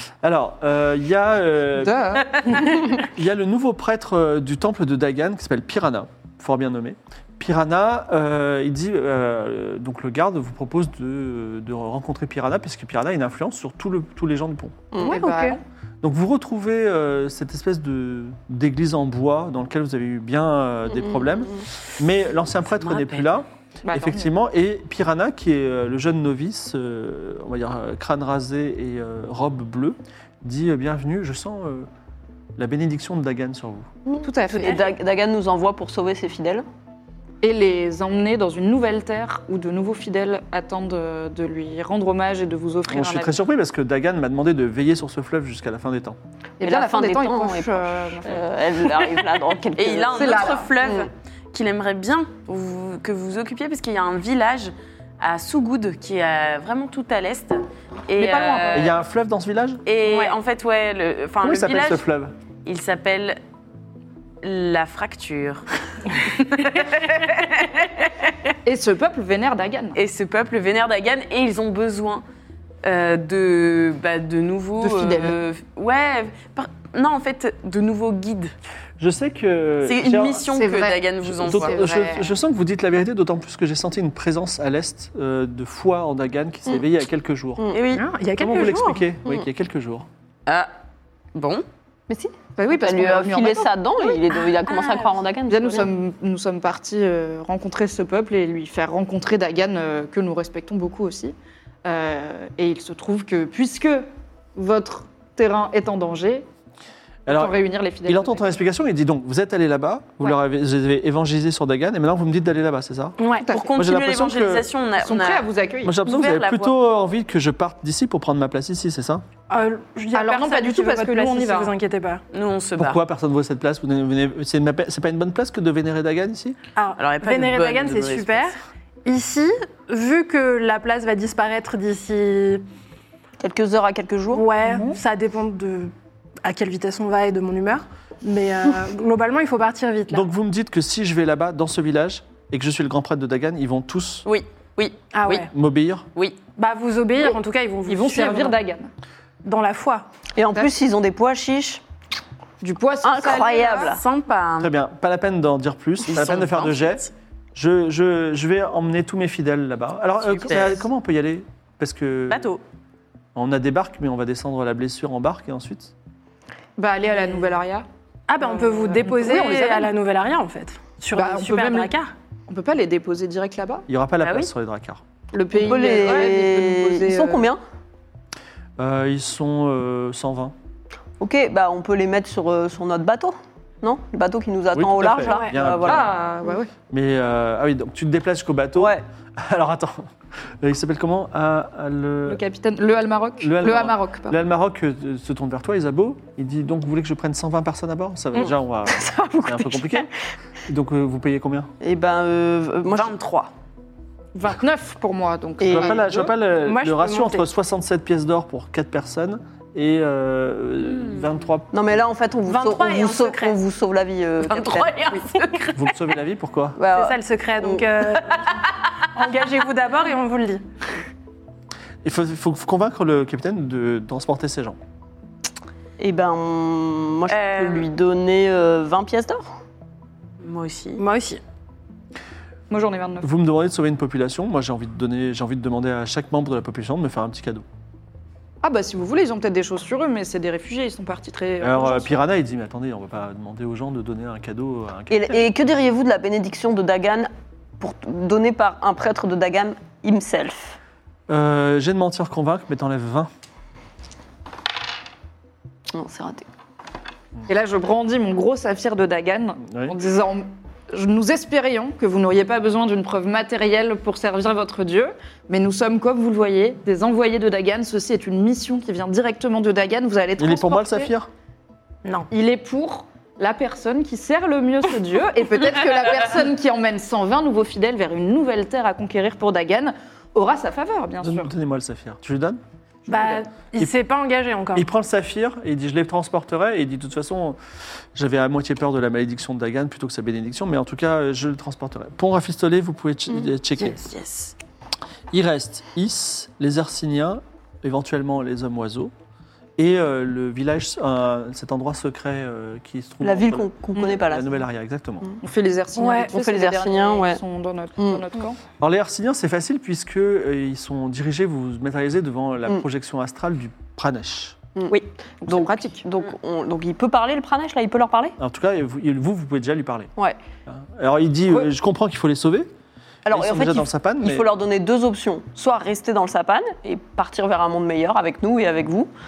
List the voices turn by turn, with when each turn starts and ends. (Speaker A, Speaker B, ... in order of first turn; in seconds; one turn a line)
Speaker A: 0.2-14.9
Speaker B: 1.8-2.8
Speaker C: 14.9-15.2
Speaker B: 15.0-15.6
Speaker D: 15.0-15.6
Speaker A: 16.0-31.9
Speaker E: 22.8-23.3
Speaker B: 23.9-24.3
Speaker A: 32.6-33.9
Speaker C: 34.1-36.6
Speaker B: 34.2-34.9
Speaker B: 37.4-43.4
Speaker A: 42.9-46.2
Speaker B: 46.6-48.5
Speaker C: 46.6-51.1
Speaker E: 49.8-59.0
Speaker B: 50.1-50.9
Speaker B: 58.2-59.0
Speaker A: 58.7-59.8
Speaker E: 59.9-62.0
Speaker D: 60.0-60.3
Speaker A: 61.4-62.3
Speaker E: 62.6-63.4
Speaker E: 64.4-68.1
Speaker B: 68.7-70.0
Speaker E: 70.0-72.2
Speaker E: 72.8-78.5
Speaker B: 74.8-75.4
Speaker A: 79.0-80.5
Speaker E: 79.8-81.8
Speaker B: 80.5-82.3
Speaker A: 81.3-87.7
Speaker E: 87.7-88.1
Speaker D: 87.9-89.1
Speaker A: 88.4-90.1
Speaker E: 90.5-90.7
Speaker E: 91.3-91.6
Speaker C: 92.1-95.9
Speaker B: 92.6-93.8
Speaker B: 95.5-106.5
Speaker A: 107.3-113.2
Speaker B: 107.3-108.5
Speaker D: 113.2-113.5
Speaker B: 113.4-113.7
Speaker E: 113.5-115.5
Speaker A: 113.7-114.7
Speaker B: 115.0-116.0
Speaker A: 115.8-119.2
Speaker E: 116.0-116.8
Speaker D: 119.5-122.2
Speaker B: 120.1-121.7
Speaker E: 122.3-123.0
Speaker A: 122.8-126.6
Speaker D: 126.8-132.6
Speaker E: 127.0-128.5
Speaker C: 133.4-134.4
Speaker D: 134.3-135.9
Speaker B: 134.7-135.0
Speaker D: 136.4-140.3
Speaker A: 140.1-144.3
Speaker E: 144.2-145.5
Speaker D: 145.1-145.5
Speaker A: 145.4-146.1
Speaker D: 146.6-148.6
Speaker B: 147.9-148.9
Speaker D: 149.4-150.1
Speaker C: 150.4-151.8
Speaker B: 152.6-154.0
Speaker C: 153.0-154.0
Speaker E: 153.7-154.7
Speaker A: 154.6-157.0
Speaker E: 156.0-157.1
Speaker A: 157.6-162.5
Speaker E: 160.2-160.8
Speaker E: 162.3-162.6
Speaker A: 163.3-165.9
Speaker B: 166.8-167.9
Speaker D: 168.3-172.1
Speaker B: 168.4-169.9
Speaker B: 171.1-171.9
Speaker B: 172.5-173.9
Speaker A: 173.9-175.0
Speaker E: 174.2-174.5
Speaker B: 175.3-177.5
Speaker C: 175.5-177.6
Speaker A: 178.8-180.5
Speaker C: 181.2-186.1
Speaker A: 184.7-186.1
Speaker D: 185.2-185.6
Speaker B: 185.8-186.7
Speaker A: 186.9-190.1
Speaker C: 188.8-189.0
Speaker A: 190.6-192.4
Speaker B: 192.3-194.4
Speaker A: 193.4-200.1
Speaker C: 198.4-200.1
Speaker A: 200.7-201.7
Speaker C: 201.8-203.2
Speaker E: 202.9-203.5
Speaker B: 204.3-206.0
Speaker C: 205.6-206.3
Speaker A: 205.7-211.7
Speaker D: 206.6-207.5
Speaker E: 211.0-211.2
Speaker C: 211.7-215.2
Speaker D: 212.5-213.6
Speaker E: 214.4-216.0
Speaker A: 215.8-216.8
Speaker C: 216.8-217.9
Speaker D: 216.9-218.6
Speaker E: 218.3-218.6
Speaker D: 219.1-220.7
Speaker A: 222.0-224.8
Speaker C: 226.0-229.6
Speaker E: 227.3-227.9
Speaker E: 230.4-231.0
Speaker D: 231.0-231.4
Speaker B: 232.7-233.3
Speaker A: 233.2-237.6
Speaker B: 238.6-242.2
Speaker A: 241.6-245.5
Speaker C: 245.1-250.8
Speaker A: 251.3-253.3
Speaker C: 255.9-256.5
Speaker B: 257.5-271.1
Speaker A: 270.4-271.3
Speaker B: 272.3-281.5
Speaker A: 281.2-283.9
Speaker D: 283.1-284.9
Speaker A: 284.7-287.6
Speaker A: 288.1-294.0
Speaker E: 293.9-294.5
Speaker A: 295.3-299.1
Speaker A: 299.8-305.4
Speaker C: 303.2-304.5
Speaker B: 303.9-304.2
Speaker B: 305.4-308.6
Speaker D: 306.0-306.4
Speaker C: 306.3-307.4
Speaker C: 308.0-308.2
Speaker A: 308.8-314.6
Speaker C: 314.8-318.4
Speaker B: 314.9-316.1
Speaker A: 318.4-320.1
Speaker A: 320.7-322.7
Speaker C: 323.2-329.1
Speaker A: 323.3-324.5